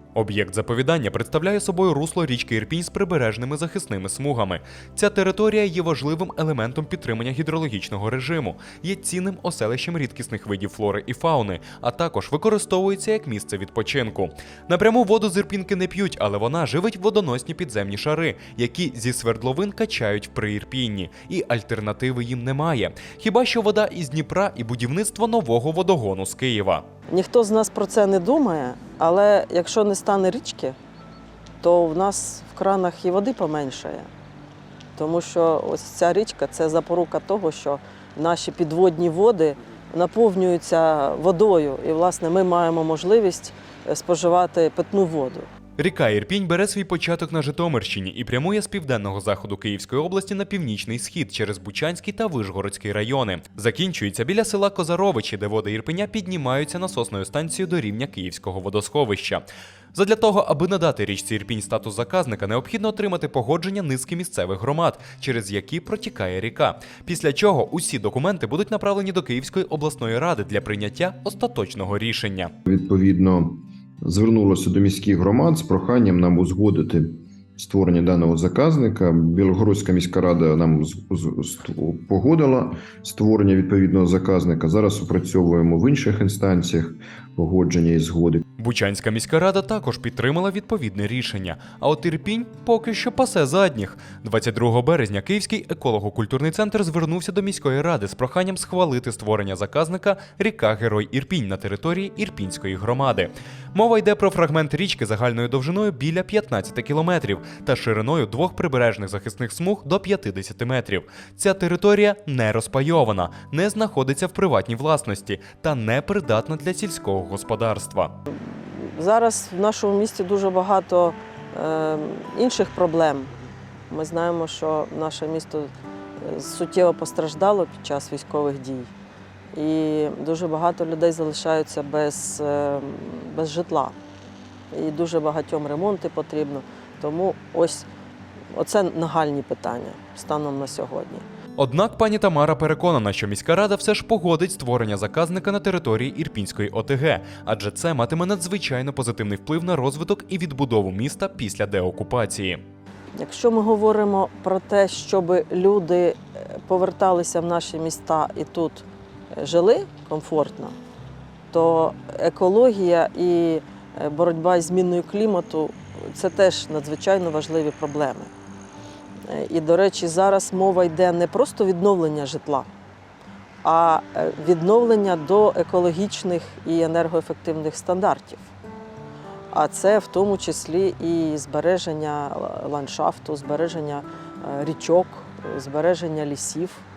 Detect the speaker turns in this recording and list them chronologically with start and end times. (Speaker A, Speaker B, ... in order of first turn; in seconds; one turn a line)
Speaker A: 0.1-26.9
Speaker B: 27.1-30.8
Speaker B: 31.6-34.1
Speaker B: 35.0-45.5
Speaker A: 45.8-72.5
Speaker C: 72.7-88.4
Speaker A: 88.6-118.1
Speaker B: 118.3-123.3
Speaker B: 123.9-128.9
Speaker B: 129.5-134.0
Speaker B: 134.7-137.9
Speaker B: 138.5-141.2
Speaker A: 141.6-152.6
Speaker B: 153.2-160.8
Speaker B: 161.5-168.3
Speaker B: 169.3-172.7
Speaker B: 173.6-178.5
Speaker B: 179.5-186.8